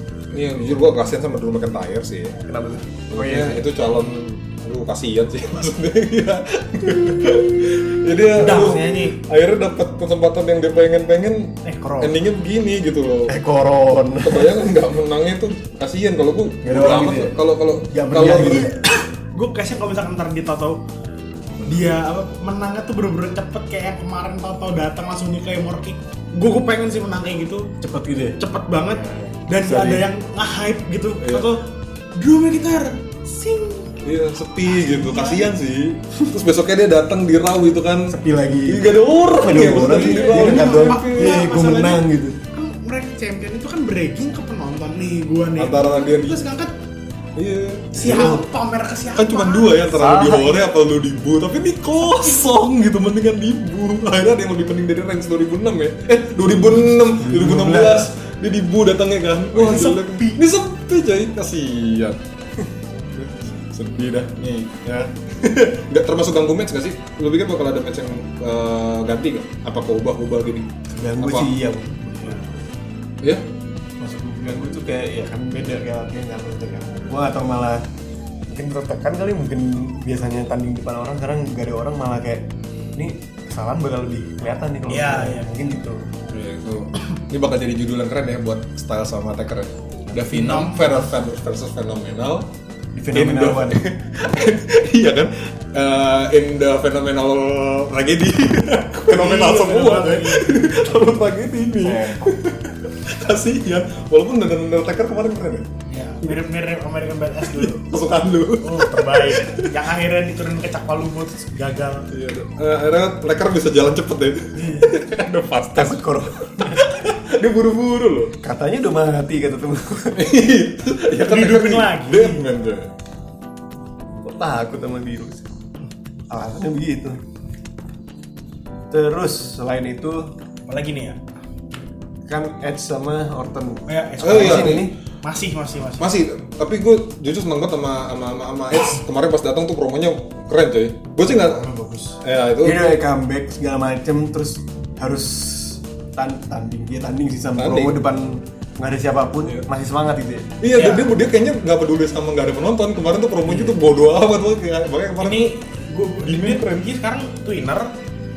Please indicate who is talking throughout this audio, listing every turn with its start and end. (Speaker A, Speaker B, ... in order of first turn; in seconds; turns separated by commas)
Speaker A: 0.3-2.4, Speaker B: 2.5-3.6, Speaker A: 3.1-13.3, Speaker C: 8.3-9.2, Speaker C: 11.6-12.2, Speaker B: 13.3-14.8, Speaker A: 14.2-18.7, Speaker B: 16.6-17.4, Speaker B: 17.9-18.7, Speaker C: 18.3-20.8, Speaker A: 21.6-21.9, Speaker C: 21.7-27.7, Speaker B: 27.8-28.4, Speaker C: 28.4-33.9, Speaker B: 29.0-30.1, Speaker A: 31.2-31.5, Speaker A: 34.0-41.5, Speaker C: 34.6-35.5, Speaker B: 38.1-42.4, Speaker C: 39.9-46.7, Speaker A: 45.6-46.4, Speaker A: 47.4-48.4, Speaker B: 48.0-48.4, Speaker C: 48.0-49.9, Speaker A: 49.2-62.2, Speaker B: 49.9-50.6, Speaker B: 56.5-58.1, Speaker C: 59.5-60.4, Speaker A: 63.2-71.5, Speaker B: 70.9-72.4, Speaker B: 74.0-77.8, Speaker B: 78.5-86.1, Speaker C: 84.9-85.5, Speaker A: 86.3-92.5, Speaker C: 90.2-91.1, Speaker B: 92.9-93.8, Speaker A: 93.1-105.7, Speaker C: 99.1-101.1, Speaker B: 101.8-102.3, Speaker C: 105.9-107.8, Speaker A: 107.5-109.8, Speaker C: 108.6-112.1, Speaker A: 112.1-118.4, Speaker C: 114.5-115.0, Speaker B: 115.8-116.8, Speaker B: 118.4-120.3, Speaker A: 120.1-122.9, Speaker C: 121.2-122.4, Speaker B: 124.2-125.5, Speaker B: 126.3-127.2, Speaker B: 128.9-130.3, Speaker C: 130.7-131.2, Speaker B: 132.3-134.9, Speaker C: 133.9-136.1, Speaker A: 134.2-134.9, Speaker A: 136.0-141.7, Speaker C: 141.3-142.2, Speaker A: 142.2-142.9, Speaker B: 142.6-150.6, Speaker A: 147.6-148.0, Speaker A: 150.6-155.5, Speaker C: 150.8-151.1, Speaker B: 153.4-153.8, Speaker C: 155.2-157.9, Speaker A: 156.2-156.8